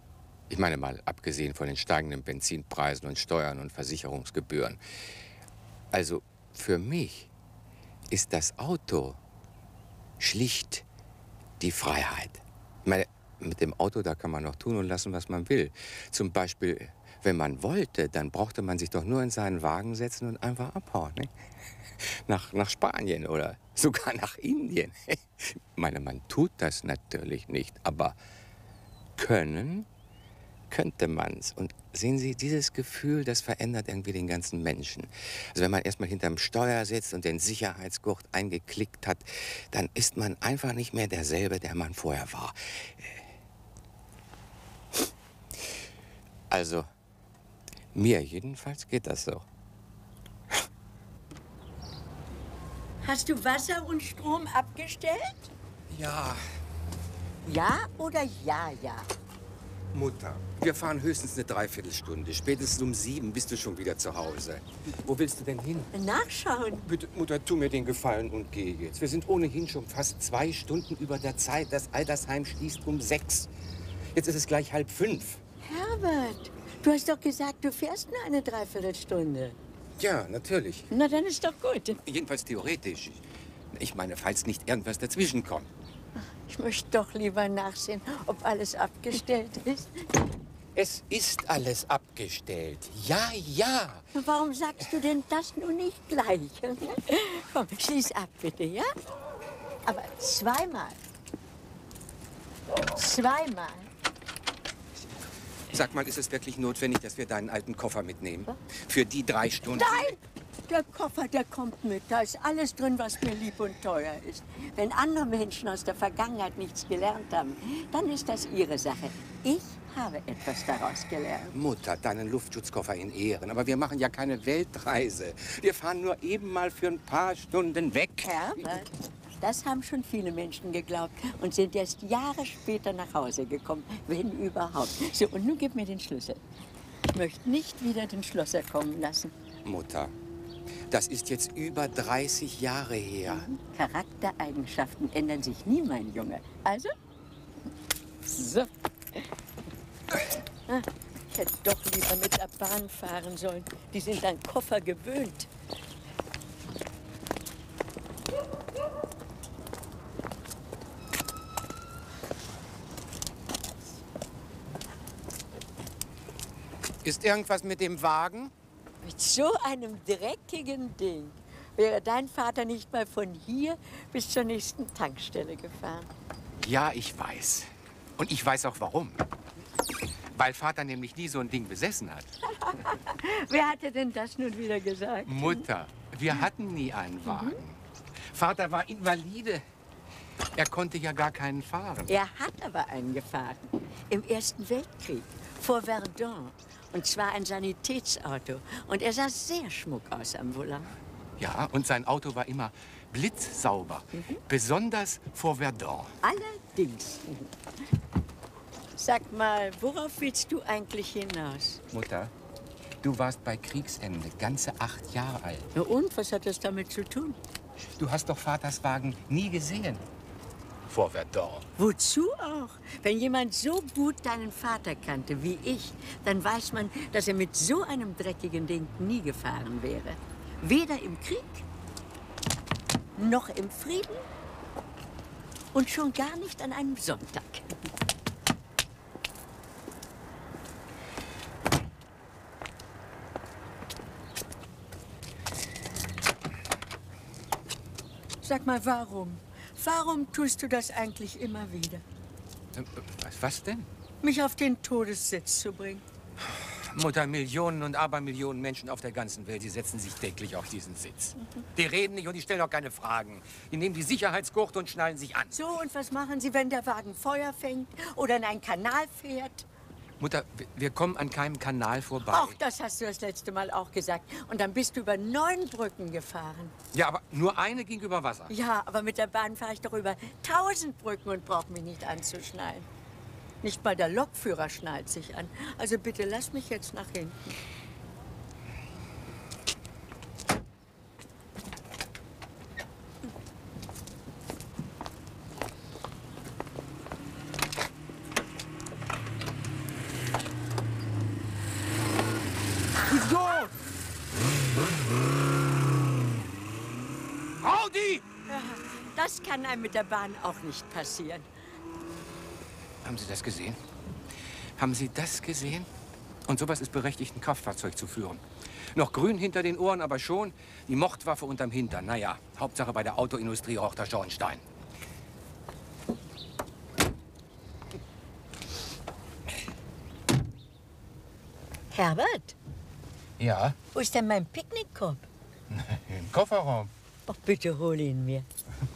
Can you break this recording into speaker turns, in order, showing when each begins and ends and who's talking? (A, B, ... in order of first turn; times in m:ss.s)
0:00.5-0:04.8 A
0:05.9-0:07.3 A
0:08.1-0:09.2 A
0:10.2-0:10.8 A
0:11.6-0:21.3 A
0:22.2-0:28.2 A
0:29.2-0:29.9 A
0:30.7-0:43.2 A
0:46.5-0:46.9 A
0:47.9-0:49.4 A
0:53.0-0:55.5 B
0:55.9-0:56.4 A
0:57.4-0:59.1 B
0:59.9-1:05.9 A
1:05.9-1:06.9 B
1:06.8-1:13.5 A
1:14.1-1:15.4 A
1:15.6-1:19.6 B
1:20.0-1:20.9 A
1:20.9-1:22.0 B
1:22.0-1:23.2 A
1:23.7-1:25.7 A
1:26.2-1:30.0 B
1:30.7-1:34.0 A
1:34.1-1:39.0 B
1:39.8-1:41.0 B
1:42.9-1:43.9 B
1:45.7-1:50.1 A
1:49.7-2:01.5 B
2:01.5-2:08.8 A
2:08.2-2:08.9 B
2:09.4-2:16.4 B
2:17.1-2:19.3 B
2:19.6-2:20.1 A
2:20.9-2:23.5 A
2:23.3-2:26.9 B
2:28.2-2:29.3 B
2:30.7-2:35.5 B
2:47.0-2:48.5 A
2:49.0-2:56.1 B
2:56.6-2:59.2 A
3:00.3-3:02.3 A
3:02.5-3:05.6 B
3:05.2-3:07.8 A
3:07.2-3:07.6 B
3:08.3-3:09.6 A
3:10.6-3:12.1 A
3:12.1-3:21.0 B
3:21.4-3:26.1 A
3:24.1-3:24.4 B
3:26.2-3:27.5 B
3:29.0-3:31.8 B
3:31.9-3:32.3 A
3:33.0-3:35.7 A
3:35.7-3:37.4 B
3:38.0-3:40.0 A
3:40.9-3:41.6 A
3:41.8-3:51.7 B
3:53.2-3:54.3 B
3:55.7-3:57.7 B
4:08.4-4:12.0 B
4:12.7-4:13.9 A
4:14.2-4:16.0 B
4:16.8-4:25.6 A
4:25.5-4:29.6 B
4:30.2-4:32.6 A
4:32.2-4:36.7 B
4:36.9-4:38.5 A
4:38.5-4:42.9 B
4:43.6-4:47.6 B
5:03.1-5:03.7 A
5:07.6-5:08.2 A
5:08.5-5:11.5 B
5:13.0-5:13.8 A
5:14.8-5:15.9 A
5:16.5-5:18.4 A
5:18.9-5:24.6 A
5:31.9-5:32.6 B
5:33.4-5:33.8 A
5:33.9-5:35.3 B
5:35.7-5:36.9 A
5:37.3-5:38.4 B